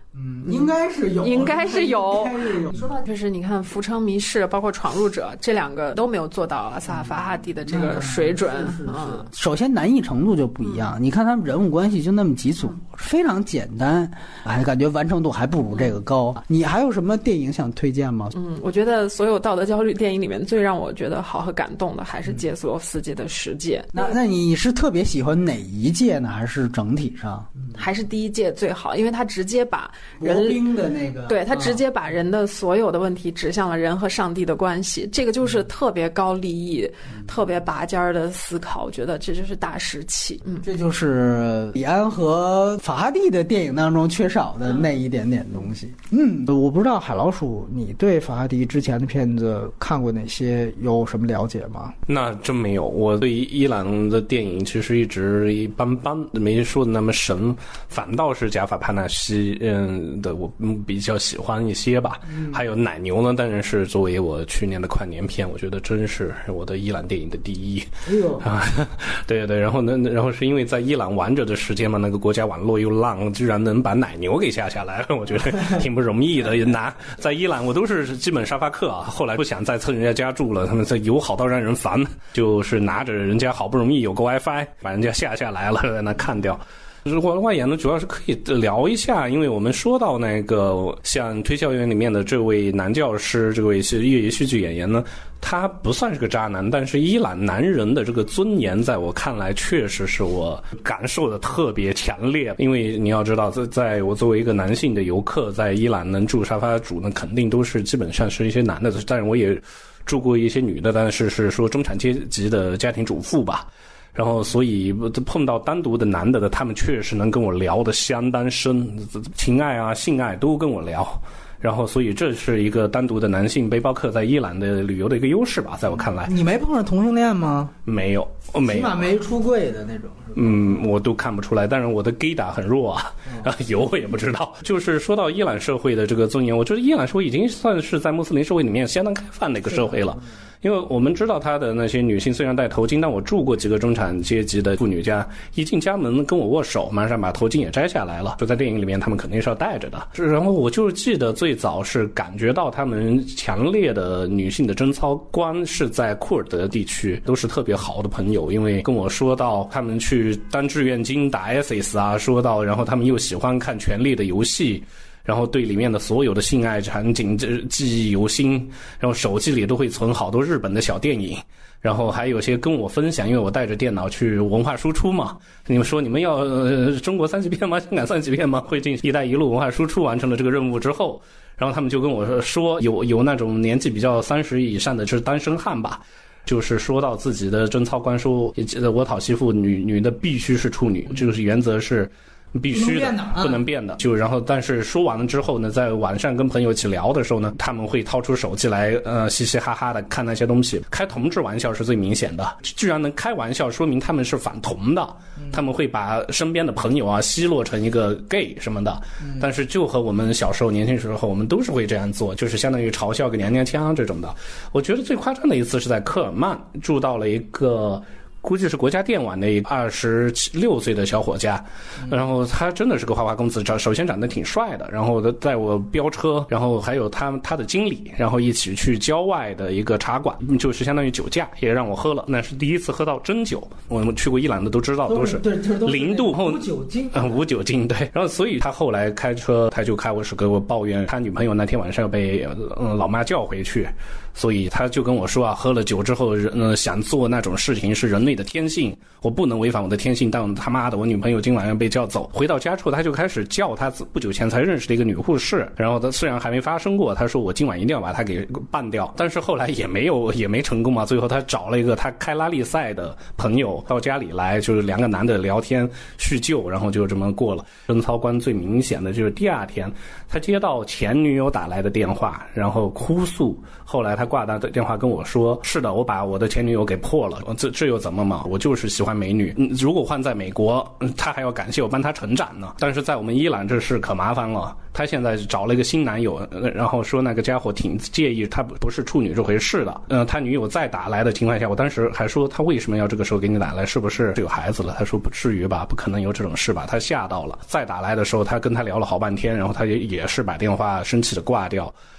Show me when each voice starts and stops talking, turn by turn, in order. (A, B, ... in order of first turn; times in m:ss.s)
0:00.1-0:02.9 A
0:01.2-0:09.3 B
0:07.7-0:18.3 A
0:18.3-0:24.2 B
0:23.9-0:27.7 A
0:27.7-0:30.6 B
0:30.2-0:31.8 A
0:31.3-0:40.6 B
0:40.6-0:52.0 A
0:52.1-2:06.4 C
1:08.0-1:08.4 A
2:06.2-2:07.7 A
2:07.9-2:09.1 C
2:08.6-2:10.6 A
2:10.4-5:01.9 C
3:12.7-3:13.6 A
3:55.1-3:57.3 A